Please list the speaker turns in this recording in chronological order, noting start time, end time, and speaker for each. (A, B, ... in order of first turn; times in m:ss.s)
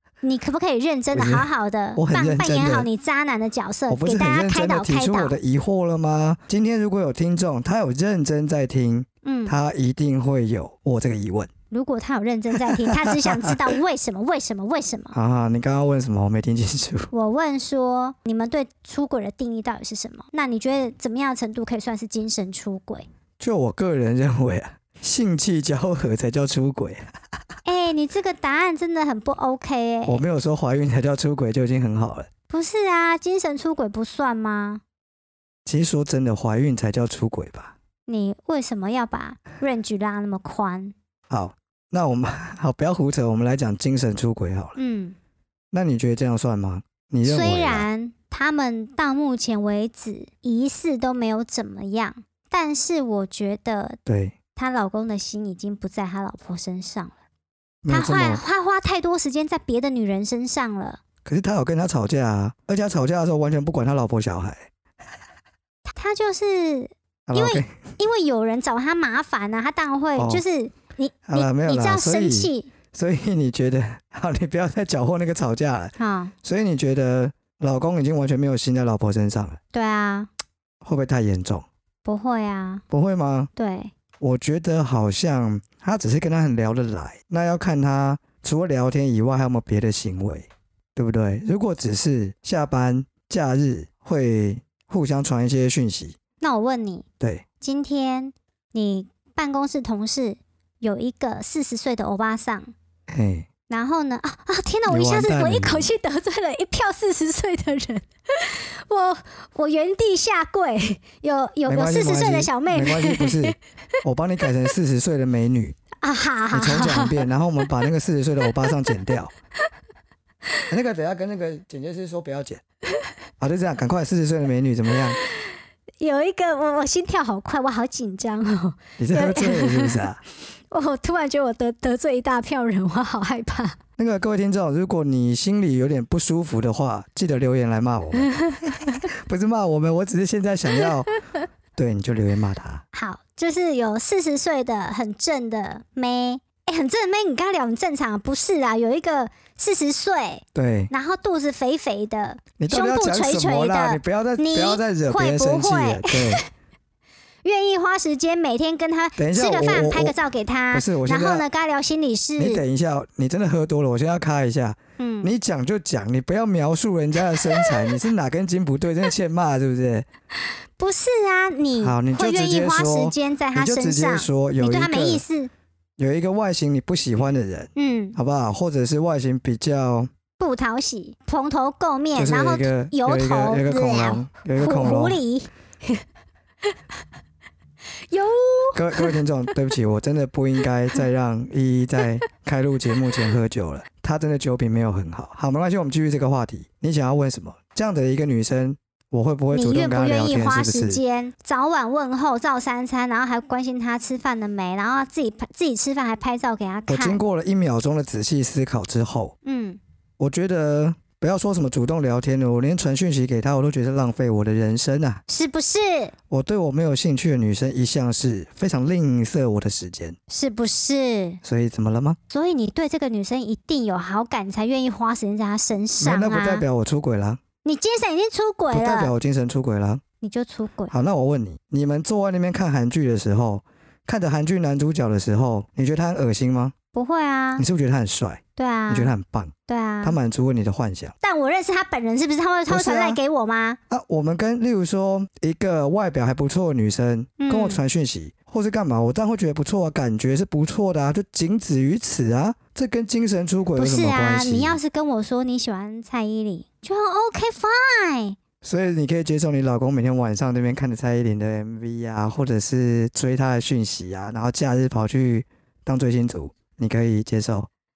0:00.2-0:05.4 A
0:01.1-0:02.9 B
0:03.9-0:11.5 B
0:09.2-0:09.6 A
0:11.7-0:15.2 A
0:12.7-0:13.6 B
0:15.1-0:17.1 B
0:17.1-0:23.1 A
0:23.4-0:27.0 B
0:27.6-0:30.2 A
0:30.0-0:32.3 B
0:32.5-0:34.8 A
0:35.6-0:37.7 B
0:38.1-0:40.9 A
0:41.3-0:44.8 B
0:44.8-0:45.2 A
0:45.7-0:47.8 B
0:47.2-0:54.0 A
0:54.0-0:54.4 B
0:54.5-0:57.1 A
0:57.8-0:58.4 B
0:57.9-1:01.0 A
1:01.2-1:04.7 B
1:05.9-1:12.7 A
1:07.3-1:07.7 B
1:10.2-1:10.4 B
1:11.3-1:19.6 B
1:16.0-1:16.3 A
1:19.7-1:20.3 A
1:20.8-1:21.6 B
1:22.0-1:22.8 A
1:22.9-1:23.5 B
1:23.6-1:23.9 A
1:24.2-1:36.2 B
1:36.4-1:37.0 A
1:37.6-1:42.7 A
1:43.1-1:43.5 B
1:43.7-1:53.6 A
1:44.9-1:45.9 B
1:51.7-1:55.8 B
1:54.4-1:54.7 A
1:56.0-1:57.2 A
1:56.5-1:59.3 B
2:00.7-2:02.6 B
2:03.4-2:05.2 B
2:06.0-2:10.0 A
2:09.0-2:10.2 B
2:10.7-2:13.8 A
2:14.0-2:18.3 B
2:18.2-2:18.7 A
2:18.9-2:21.1 B
2:21.7-2:22.8 B
2:22.9-2:36.4 A
2:30.5-2:30.9 B
2:32.6-2:36.4 B
2:37.4-2:42.6 A
2:39.2-2:40.1 B
2:40.7-2:41.4 B
2:42.4-2:50.1 B
2:45.0-2:45.3 A
2:47.3-2:48.0 A
2:50.8-2:55.5 A
2:51.8-2:55.2 B
2:56.0-3:00.1 B
2:57.7-2:58.2 A
3:00.4-3:06.0 A
3:02.1-3:05.2 B
3:08.1-3:09.2 A
3:08.7-3:21.0 B
3:19.5-3:27.2 A
3:26.9-3:29.3 B
3:29.4-3:29.8 A
3:30.2-3:35.2 B
3:35.3-3:36.1 A
3:36.3-3:40.2 B
3:40.3-3:41.4 A
3:41.4-3:42.2 B
3:42.3-3:46.6 A
3:46.0-3:47.4 B
3:47.6-3:49.1 A
3:48.7-3:50.0 B
3:50.2-3:50.9 A
3:50.9-3:56.7 B
3:56.9-3:57.6 A
3:57.6-4:01.1 B
3:58.6-3:59.1 A
3:59.7-4:00.2 A
4:01.2-4:03.8 A
4:02.7-4:03.2 B
4:03.9-4:14.8 B
4:07.4-4:07.8 A
4:13.8-4:18.4 A
4:18.6-4:27.7 B